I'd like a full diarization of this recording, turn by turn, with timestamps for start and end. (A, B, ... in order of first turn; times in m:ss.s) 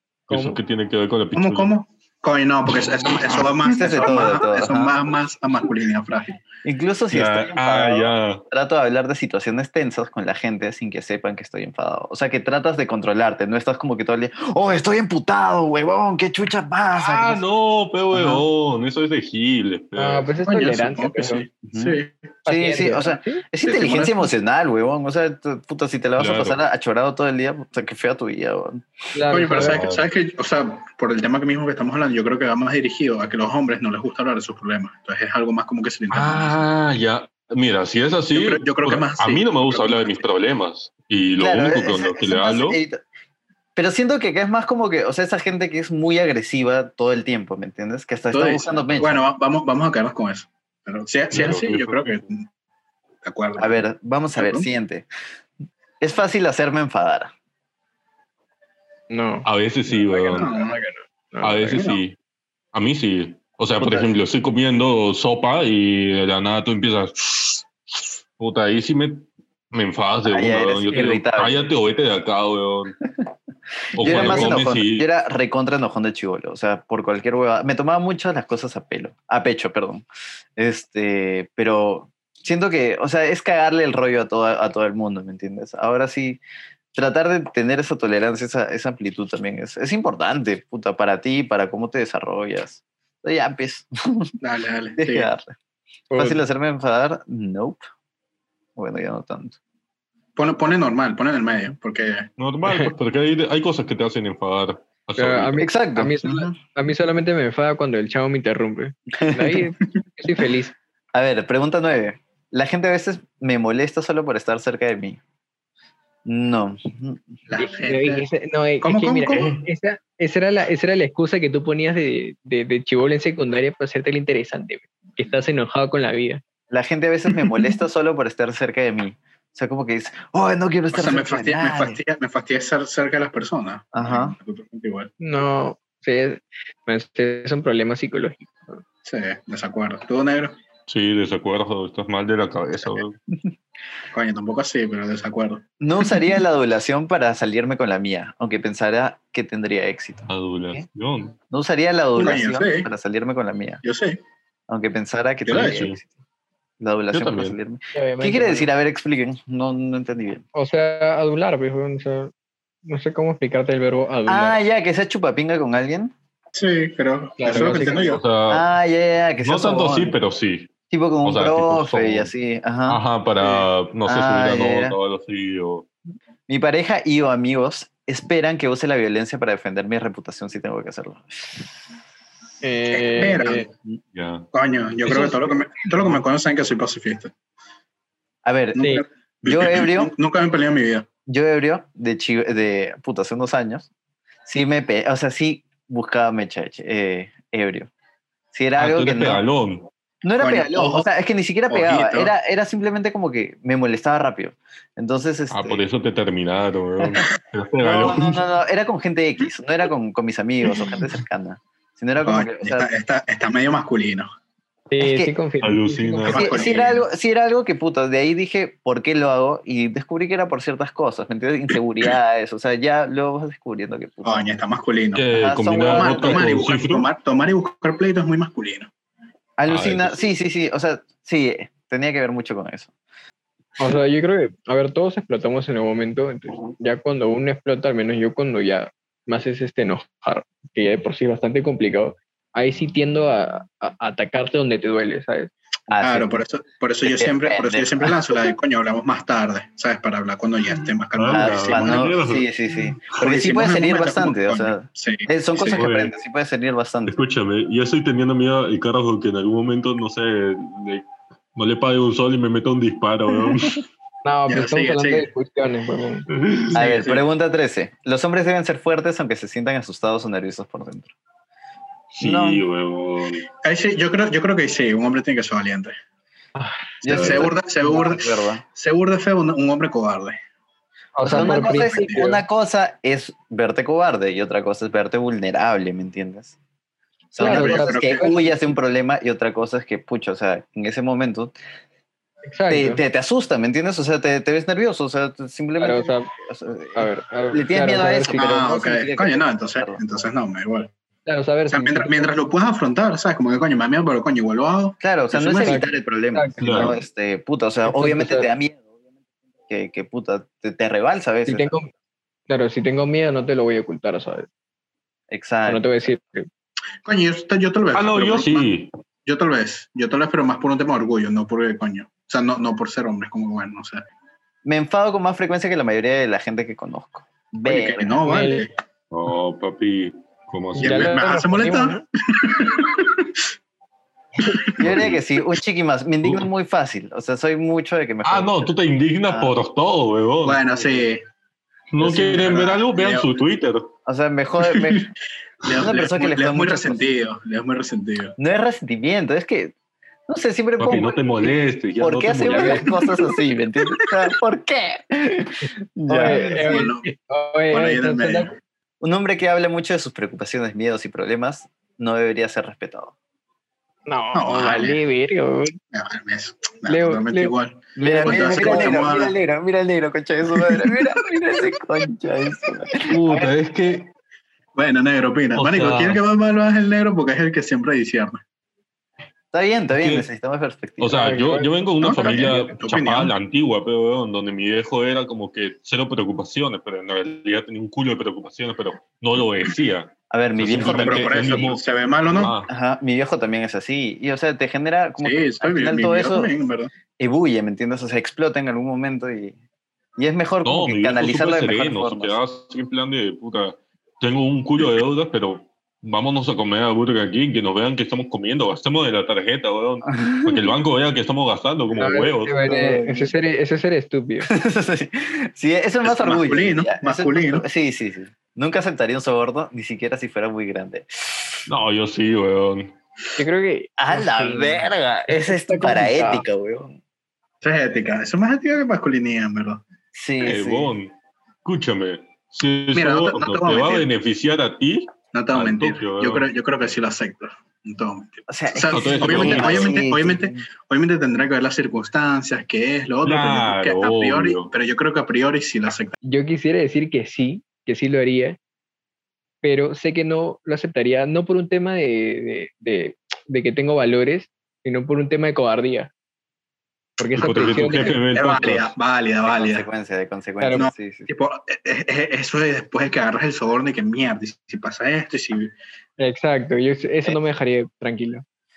0:00.3-0:00.6 A
0:00.3-0:01.7 B
0:01.3-0:06.4 C
0:03.6-0:04.9 D
0:06.6-0:17.4 D
0:07.1-0:08.4 B
0:16.9-0:20.4 B
0:20.0-0:21.4 A
0:20.4-0:22.2 C
0:21.6-0:28.8 D
0:22.4-0:23.4 A
0:23.6-0:24.3 C
0:26.2-0:26.6 B
0:29.1-0:29.8 A
0:29.3-0:36.6 C
0:29.5-0:30.1 B
0:36.1-0:42.8 B
0:38.3-0:40.2 C
0:41.4-0:43.0 D
0:43.8-0:49.2 D
0:48.3-0:52.5 C
0:51.3-0:52.2 B
0:53.2-0:53.8 C
0:53.6-0:55.1 D
0:54.4-0:54.6 C
0:56.0-0:57.3 D
0:59.1-1:01.9 A
0:59.4-1:00.5 B
1:00.3-1:00.8 C
1:01.4-1:02.2 B
1:01.7-1:02.0 C
1:02.7-1:13.0 B
1:03.8-1:04.1 D
1:10.2-1:11.7 D
1:13.9-1:20.0 D
1:14.0-1:15.1 B
1:14.1-1:14.5 A
1:20.6-1:26.4 D
1:26.9-1:34.3 D
1:34.4-1:35.3 C
1:35.0-1:35.5 D
1:36.1-1:36.4 A
1:36.2-1:37.8 D
1:38.8-1:39.6 D
1:40.4-1:42.3 C
1:42.4-1:45.6 B
1:45.2-1:50.7 A
1:45.6-1:46.4 D
1:49.1-1:49.6 D
1:51.1-1:55.2 D
1:56.2-1:57.4 D
1:57.5-1:58.3 C
1:57.6-2:06.4 A
1:58.8-1:59.6 C
2:06.7-2:12.0 D
2:10.9-2:15.1 C
2:13.9-2:14.3 D
2:15.2-2:18.8 A
2:19.0-2:20.6 C
2:20.9-2:23.2 B
2:24.1-2:25.6 C
2:25.8-2:30.8 D
2:30.3-2:31.4 B
2:31.5-2:33.8 D
2:32.2-2:32.9 C
2:33.8-2:34.2 C
2:34.7-2:36.1 D
2:35.4-2:36.0 B
2:35.5-2:35.9 C
2:36.8-2:40.4 D
2:37.1-2:37.6 B
2:37.9-2:38.7 A
2:40.5-2:42.3 A
2:42.8-2:44.6 A
2:44.3-2:46.1 D
2:46.5-2:48.2 C
2:47.4-2:48.2 A
2:47.5-2:48.7 B
2:48.5-2:50.2 D
2:49.4-2:52.3 B
2:50.9-2:53.0 D
2:52.9-2:55.9 B
2:54.0-2:55.0 D
2:56.5-3:01.6 D
3:02.6-3:03.7 A
3:02.9-3:03.7 C
3:04.1-3:04.5 B
3:04.5-3:07.3 C
3:08.4-3:10.1 D
3:08.8-3:11.1 C
3:11.3-3:13.9 D
3:14.4-3:17.9 D
3:18.5-3:19.4 D
3:18.8-3:19.9 B
3:20.2-3:25.8 D
3:20.4-3:21.1 C
3:21.7-3:22.3 C
3:25.5-3:28.4 B
3:27.8-3:32.9 D
3:32.2-3:34.3 C
3:34.9-3:36.6 A
3:35.0-3:35.3 D
3:35.6-3:36.5 B
3:36.3-3:37.0 C
3:36.3-3:44.5 D
3:44.2-3:45.2 C
3:45.1-3:47.1 B
3:45.3-3:46.5 D
3:45.8-3:48.9 C
3:49.6-3:52.9 D
3:49.7-3:50.3 B
3:53.8-4:05.5 A
4:05.9-4:06.4 D
4:06.0-4:12.1 C
4:07.0-4:08.5 D
4:11.2-4:12.4 B
4:11.3-4:17.2 D
4:13.1-4:15.8 C
4:15.7-4:16.1 B
4:17.1-4:23.8 B
4:24.2-4:26.3 A
4:24.5-4:25.3 C
4:26.3-4:27.1 B
4:26.7-4:31.1 D
4:26.8-4:27.2 C
4:32.1-4:33.5 B
4:32.2-4:32.6 D
4:33.6-4:36.0 C
4:36.6-4:36.9 A
4:37.0-4:38.6 D
4:37.0-4:40.4 C
4:37.1-4:37.5 B
4:41.2-4:42.4 A
4:41.2-4:46.6 D
4:41.2-4:42.2 C
4:47.3-4:51.5 D
4:47.4-4:48.6 A
4:47.4-4:48.4 C
4:52.4-4:53.0 A
4:52.7-5:00.0 D
4:55.8-4:56.3 A
4:57.0-4:58.5 A
4:58.3-5:00.9 C
5:01.2-5:02.3 A
5:01.7-5:05.8 C
5:05.0-5:08.8 D
5:05.6-5:06.9 A
5:06.6-5:07.0 B
5:07.9-5:08.5 A
5:09.7-5:11.7 D
5:11.4-5:11.9 A
5:12.5-5:14.5 A
5:15.3-5:15.8 D
5:15.6-5:16.5 A
5:17.0-5:18.7 C
5:17.9-5:18.9 B
5:19.2-5:24.0 C
5:24.6-5:28.2 D
5:27.6-5:28.7 C
5:28.2-5:28.7 A
5:29.1-5:31.2 B
5:30.8-5:32.0 A
5:30.8-5:33.3 C
5:34.8-5:38.7 D
5:34.8-5:35.2 B
5:36.2-5:36.5 B
5:38.2-5:40.6 B
5:39.3-5:39.5 D
5:40.4-5:41.2 C
5:41.9-5:43.9 B
5:42.0-5:43.3 C
5:44.0-5:45.1 D
5:44.6-5:45.1 C
5:45.6-5:48.3 C
5:45.7-5:47.0 D
5:48.4-5:49.7 D
5:50.3-5:56.9 D
5:50.8-5:53.0 B
5:52.5-5:52.8 A
5:56.1-5:58.5 A
5:56.2-5:57.0 C
5:57.7-5:58.6 C
5:59.0-6:03.1 D
6:04.1-6:05.8 A
6:04.3-6:05.0 C
6:05.9-6:09.3 C
6:06.9-6:09.1 A
6:08.0-6:13.5 D
6:13.1-6:14.1 B
6:14.7-6:18.4 C
6:15.5-6:16.2 B
6:19.5-6:21.4 D
6:19.9-6:20.3 B
6:21.0-6:32.7 B
6:21.2-6:21.7 A
6:22.0-6:23.3 C
6:30.3-6:31.7 D
6:30.7-6:32.5 C
6:32.6-6:36.5 D
6:35.2-6:36.9 C
6:37.2-6:39.6 D
6:40.2-6:42.4 D
6:40.6-6:52.5 B
6:50.2-6:50.7 D
6:52.0-6:54.5 A
6:52.6-6:53.3 D
6:54.5-7:01.6 D
6:56.0-6:57.6 C
7:01.7-7:02.9 B
7:03.4-7:06.4 A
7:04.0-7:07.0 D
7:07.6-7:09.8 C
7:10.1-7:10.9 D
7:10.4-7:11.1 B
7:11.6-7:16.5 B
7:12.9-7:14.1 C
7:15.3-7:26.2 C
7:18.5-7:20.6 D
7:18.9-7:20.0 B
7:23.2-7:24.7 B
7:26.2-7:28.6 A
7:29.6-7:36.1 A
7:37.2-7:38.2 A
7:37.4-7:38.9 B
7:37.7-7:39.9 C
7:39.4-7:41.3 D
7:40.6-7:40.8 A
7:40.7-7:45.7 C
7:46.2-7:48.4 A